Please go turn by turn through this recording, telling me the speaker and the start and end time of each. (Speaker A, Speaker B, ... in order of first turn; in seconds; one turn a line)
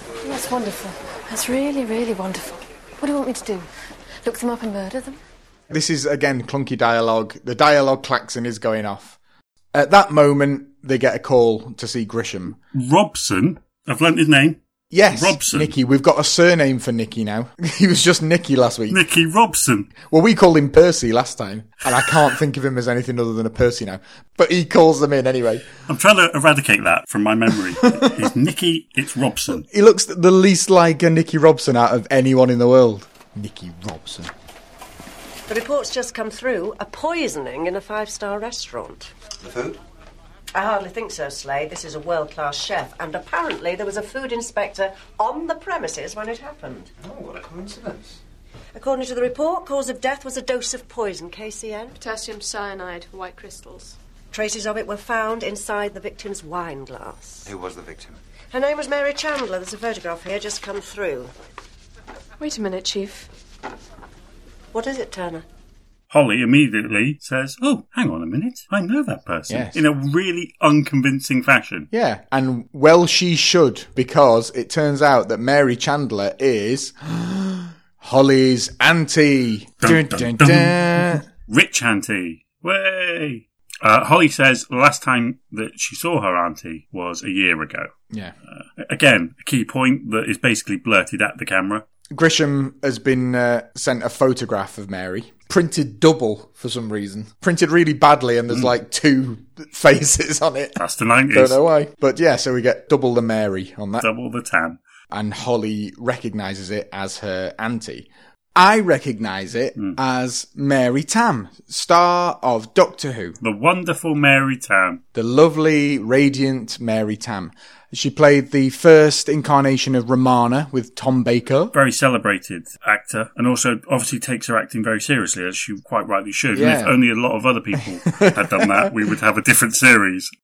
Speaker A: 0.2-3.7
Speaker A: 4.2-5.2
Speaker B: 5.7-9.2
Speaker B: 9.7-12.6
Speaker C: 12.7-14.6
Speaker B: 14.9-19.0
Speaker C: 15.1-15.7
Speaker C: 18.9-19.9
Speaker B: 20.1-25.7
Speaker C: 25.9-29.7
Speaker B: 27.8-28.1
Speaker B: 29.6-34.3
Speaker D: 35.5-39.1
Speaker E: 39.4-39.8
Speaker D: 40.5-46.9
Speaker E: 47.0-48.2
Speaker D: 48.8-52.0
Speaker A: 52.0-54.0
Speaker D: 54.3-57.5
Speaker E: 57.5-58.2
Speaker D: 58.5-61.3
Speaker A: 62.4-63.3
Speaker D: 64.7-65.5
Speaker C: 66.1-71.9
Speaker B: 69.5-69.8
Speaker B: 71.9-81.2
Speaker C: 79.8-87.9
Speaker C: 88.5-91.8
Speaker B: 92.1-100.8
Speaker C: 100.8-101.6
Speaker B: 101.3-104.1
Speaker C: 104.0-104.8
Speaker B: 105.1-113.4
Speaker C: 113.4-115.0
Speaker B: 115.1-121.7
Speaker C: 121.7-130.3
Speaker B: 126.5-127.0
Speaker B: 128.1-128.9